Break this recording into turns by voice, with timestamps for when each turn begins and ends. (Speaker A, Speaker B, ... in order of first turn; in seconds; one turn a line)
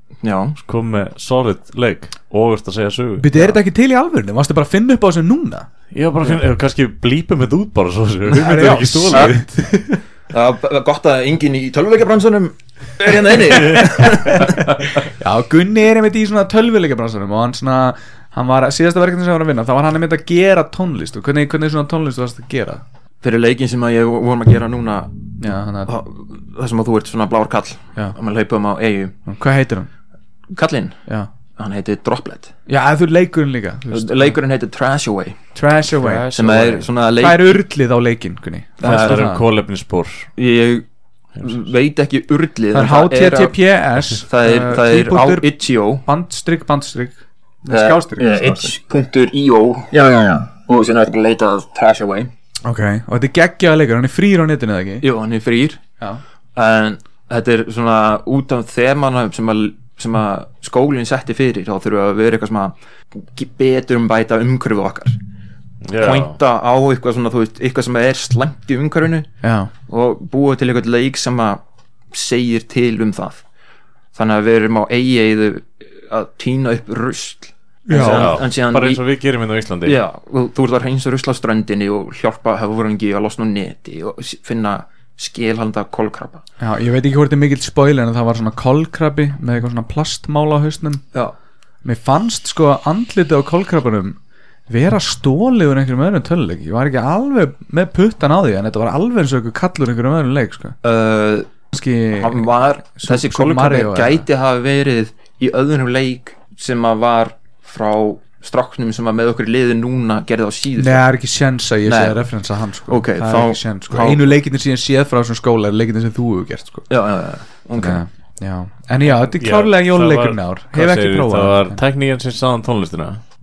Speaker A: 0.2-0.6
Speaker B: 0.6-3.3
Speaker C: 3.2-5.7
Speaker B: 5.9-10.0
Speaker C: 8.3-9.5
Speaker A: 10.3-14.6
Speaker C: 13.6-22.8
Speaker A: 23.2-25.1
Speaker C: 25.4-25.9
Speaker A: 25.9-29.1
Speaker C: 29.3-29.9
Speaker A: 30.5-31.0
Speaker A: 31.6-32.5
Speaker C: 32.7-34.4
Speaker A: 33.9-35.4
Speaker C: 35.5-36.3
Speaker B: 35.9-36.9
Speaker A: 36.3-37.5
Speaker C: 37.2-39.4
Speaker A: 38.8-39.2
Speaker B: 38.8-40.3
Speaker A: 40.4-40.9
Speaker A: 41.4-43.5
Speaker C: 42.7-48.7
Speaker A: 44.2-46.0
Speaker A: 47.7-52.3
Speaker C: 52.6-55.0
Speaker A: 55.0-55.8
Speaker A: 56.5-65.2
Speaker B: 65.8-66.3
Speaker A: 66.0-69.3
Speaker C: 69.4-69.7
Speaker A: 69.9-71.6
Speaker A: 72.1-73.4
Speaker A: 74.1-79.0
Speaker C: 77.9-78.3
Speaker B: 77.9-80.0
Speaker A: 79.8-86.4
Speaker C: 86.6-91.0
Speaker C: 91.8-94.2
Speaker C: 94.7-100.8
Speaker A: 100.8-101.5
Speaker C: 101.7-104.2
Speaker A: 102.1-111.0
Speaker C: 110.8-116.9
Speaker A: 111.8-112.2
Speaker A: 112.9-114.3
Speaker A: 116.9-118.0
Speaker C: 117.8-121.8
Speaker B: 119.1-123.2